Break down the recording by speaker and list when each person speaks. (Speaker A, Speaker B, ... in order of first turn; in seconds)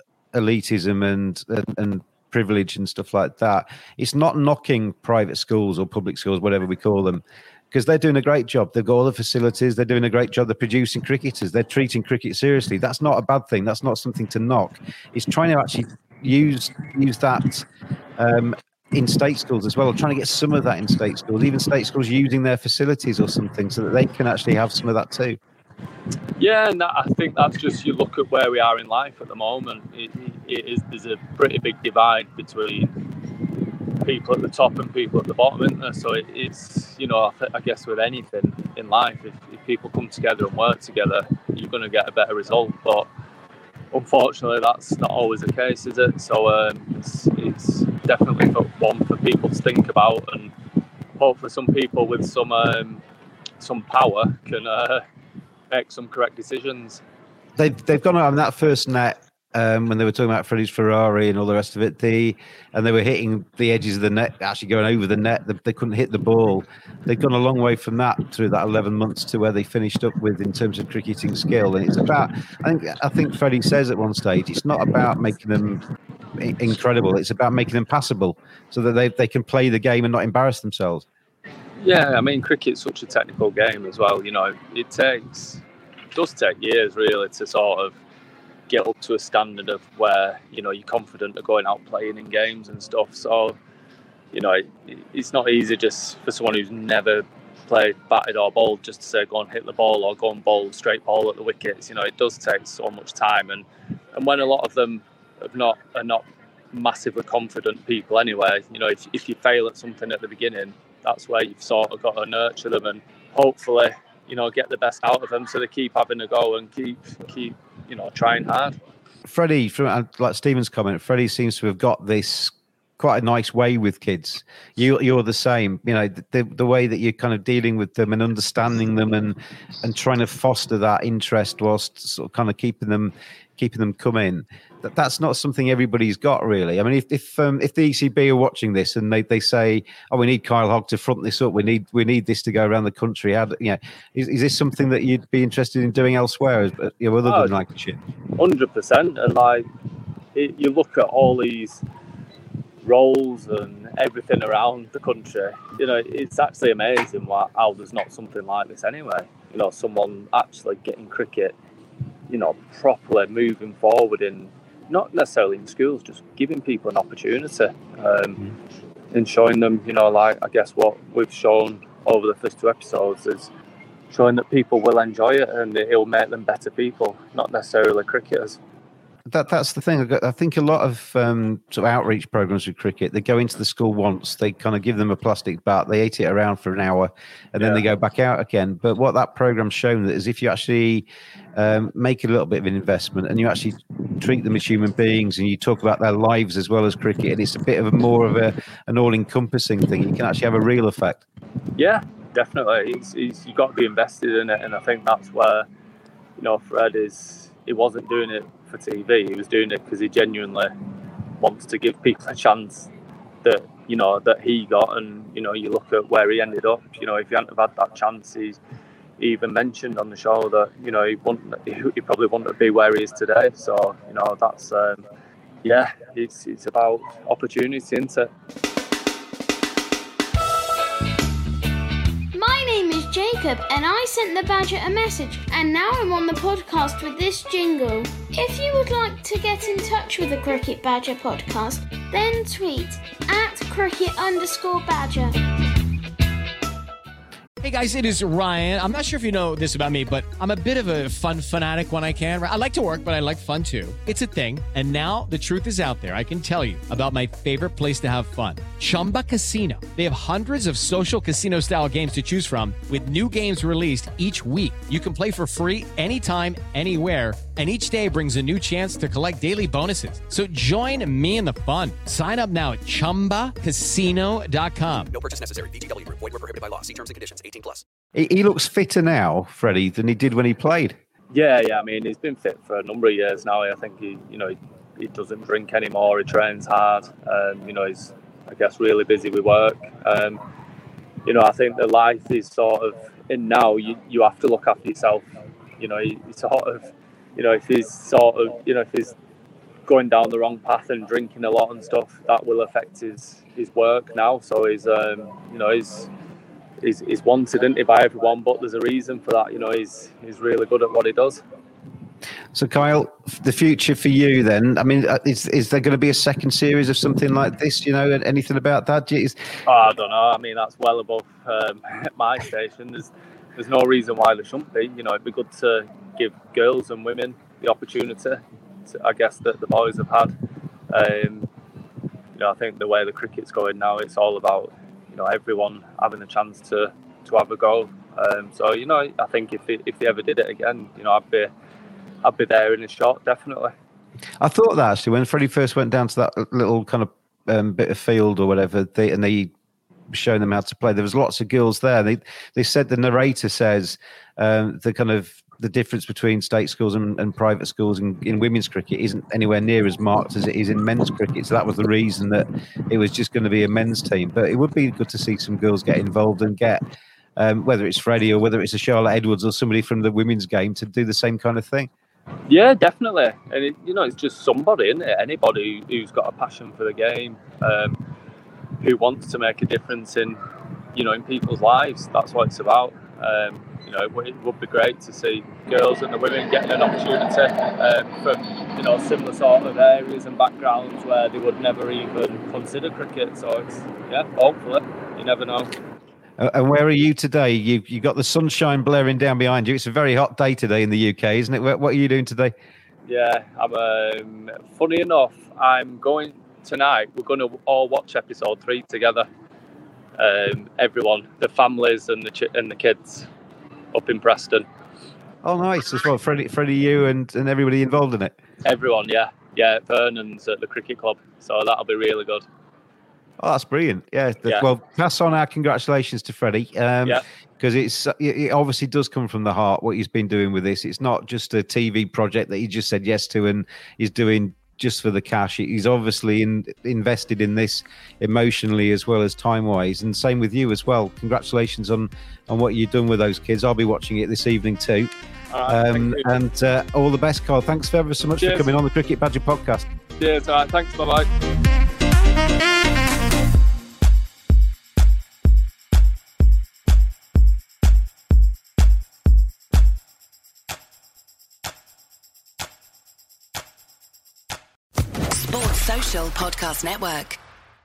Speaker A: 0.3-17.6, 18.2-25.4, 57.6-75.8, 76.4-81.0, 119.2-148.0, 179.3-201.2, 278.1-281.0, 312.5-319.4, 344.4-349.5, 350.1-366.8, 367.4-371.9, 396.4-402.5, 415.4-418.3, 423.4-445.1, 445.7-449.9
Speaker B: 26.4-32.9, 34.0-43.1, 43.9-50.5, 51.2-53.0, 53.6-55.0, 55.7-57.0, 81.8-85.6, 86.1-88.0, 88.7-93.6, 94.3-118.8, 147.2-147.5, 148.4-149.7, 150.3-151.8, 152.8-161.5, 162.3-168.5, 169.1-173.5, 174.1-178.6, 187.6-187.8, 201.8-205.7, 206.4-210.7, 211.4-212.9, 213.4-218.6, 219.2-225.0, 225.6-228.3, 281.3-290.4, 291.2-295.2, 295.8-299.1, 299.9-306.1, 306.8-311.4, 319.6-330.3, 330.9-331.5, 332.4-341.5, 342.2-343.7, 372.5-378.0, 378.8-380.4, 380.9-395.7, 403.1-409.3, 410.2-413.3, 413.9-414.6, 418.6-422.4, 445.5-446.3, 448.4-448.7, 450.2-451.3
Speaker C: 232.3-245.4
Speaker D: 247.6-275.1
Speaker E: 275.1-277.8
Speaker F: 465.4-467.4